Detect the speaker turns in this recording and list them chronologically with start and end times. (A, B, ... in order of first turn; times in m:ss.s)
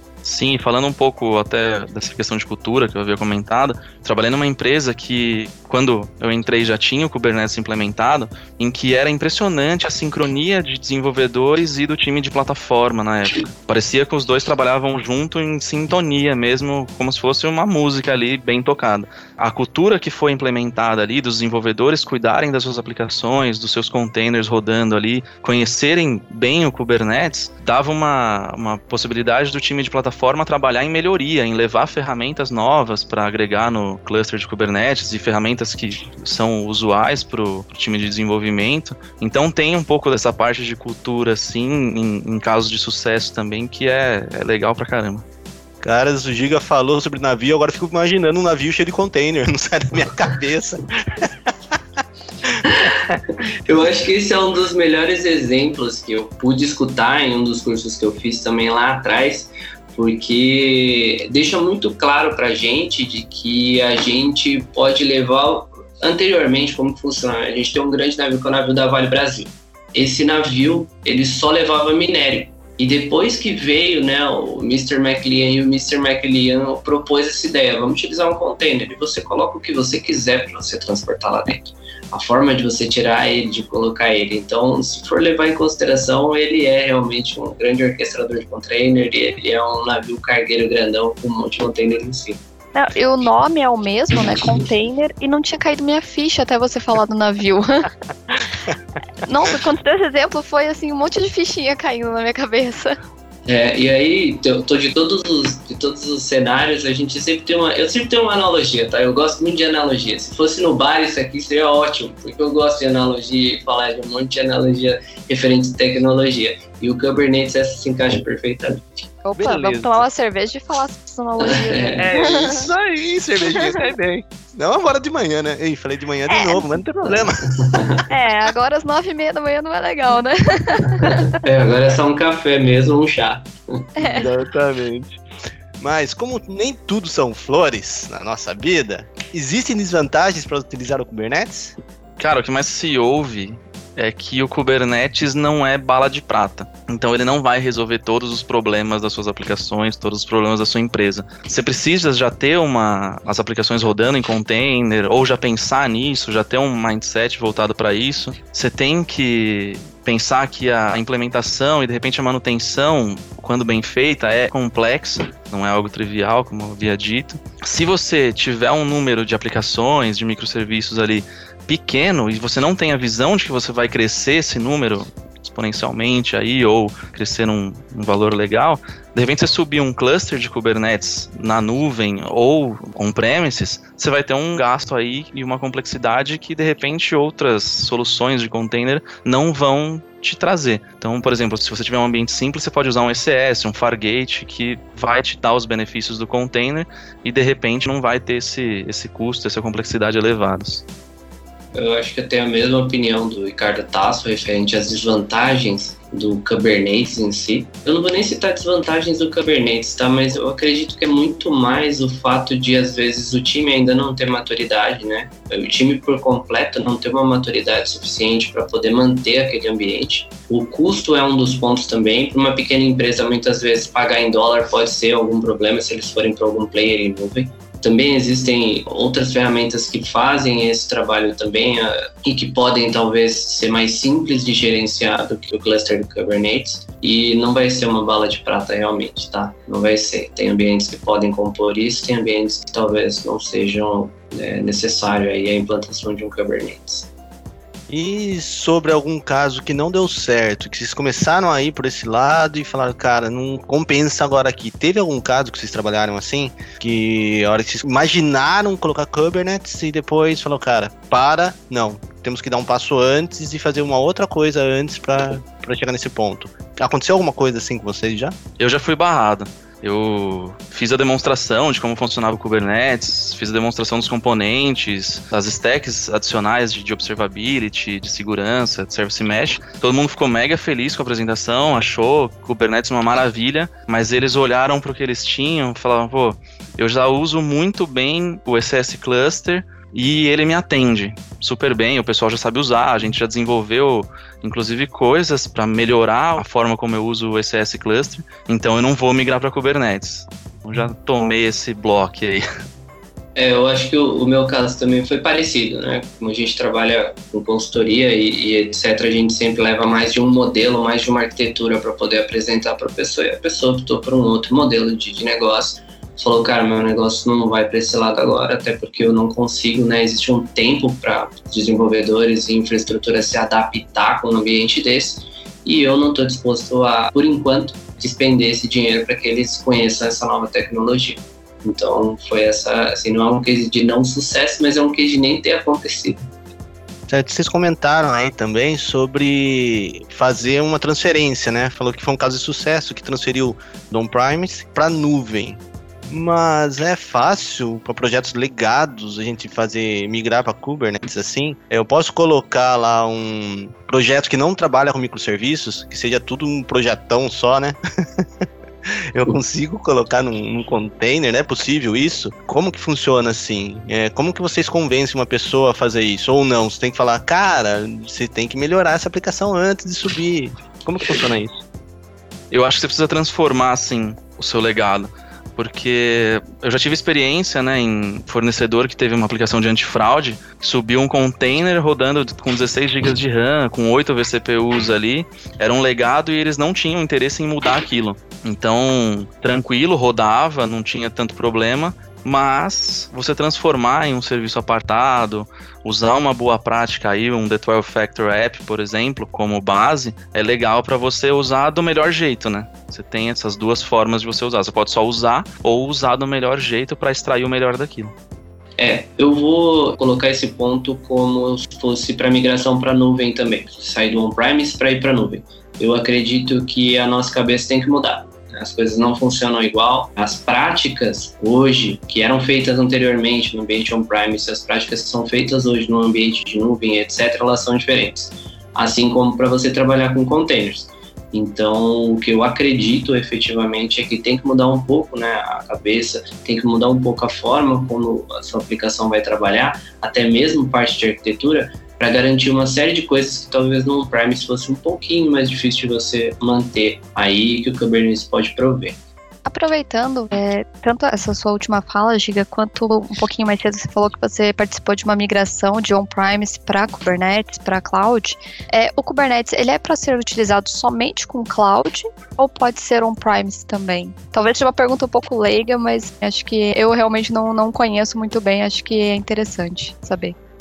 0:00.2-0:45.2 A
0:45.8-0:51.5 B
0:52.6-0:52.9 C
0:53.5-1:32.4 C
1:32.7-1:37.9 D
1:39.2-1:43.0 D
1:43.4-1:59.0 C
1:59.2-2:02.7 D
1:59.4-2:00.0 B
2:01.5-2:02.1 C
2:02.0-2:07.7 B
2:03.5-2:03.7 D
2:06.3-2:06.8 D
2:07.6-2:08.0 C
2:08.1-2:11.2 D
2:11.0-2:13.9 C
2:14.0-2:14.2 D
2:14.0-2:15.2 B
2:15.8-2:21.8 B
2:22.2-3:20.8 A
3:21.7-4:07.1 C
4:07.9-4:28.4 B
4:28.6-5:02.4 A
5:03.3-5:36.3 C
5:37.1-5:58.2 B
5:59.1-6:11.6 B
6:12.5-6:48.1 A
6:48.8-7:29.0 C
7:29.4-7:50.3 D